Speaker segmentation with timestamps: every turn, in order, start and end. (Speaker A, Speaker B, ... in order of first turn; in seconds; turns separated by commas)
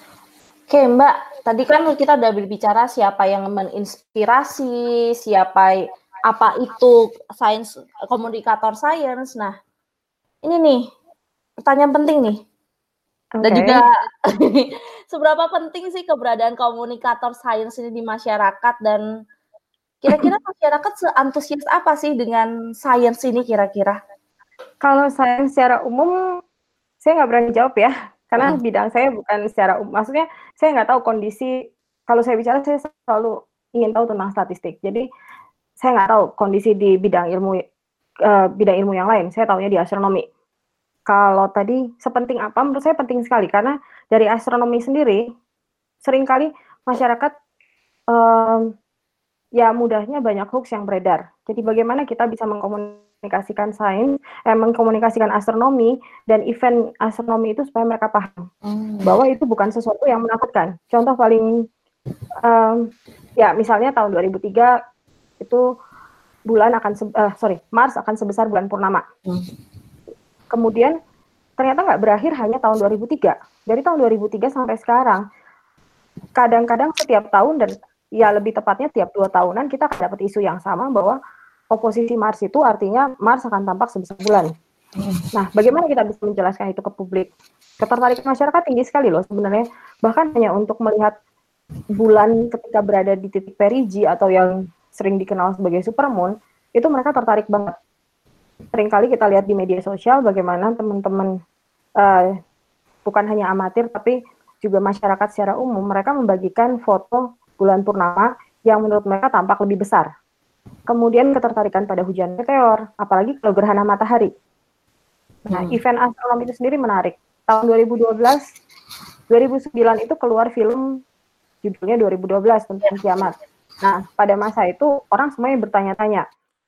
Speaker A: 0.7-9.5, Speaker A: 10.4-10.8, Speaker A: 11.6-12.4, Speaker B: 13.4-13.8, Speaker A: 13.4-19.0, Speaker A: 20.0-24.0, Speaker B: 24.8-26.1, Speaker B: 27.0-31.5, Speaker B: 32.1-35.0, Speaker B: 35.8-37.6, Speaker B: 38.2-40.2, Speaker B: 41.1-45.2, Speaker B: 46.0-47.3, Speaker B: 48.1-48.7, Speaker B: 49.6-58.4, Speaker A: 58.6-59.1, Speaker B: 59.0-61.5, Speaker B: 62.4-62.9, Speaker B: 63.4-64.7, Speaker B: 66.5-69.0, Speaker B: 70.5-70.9, Speaker B: 71.6-75.2, Speaker B: 76.3-81.2, Speaker B: 81.7-84.5, Speaker A: 85.0-85.2, Speaker B: 85.3-87.3, Speaker B: 87.8-91.1, Speaker B: 92.0-97.7, Speaker B: 98.7-101.3, Speaker B: 102.0-102.3, Speaker B: 103.0-110.1, Speaker B: 110.9-114.3, Speaker A: 115.5-115.8, Speaker B: 115.5-118.4, Speaker B: 119.3-120.8, Speaker B: 121.6-126.2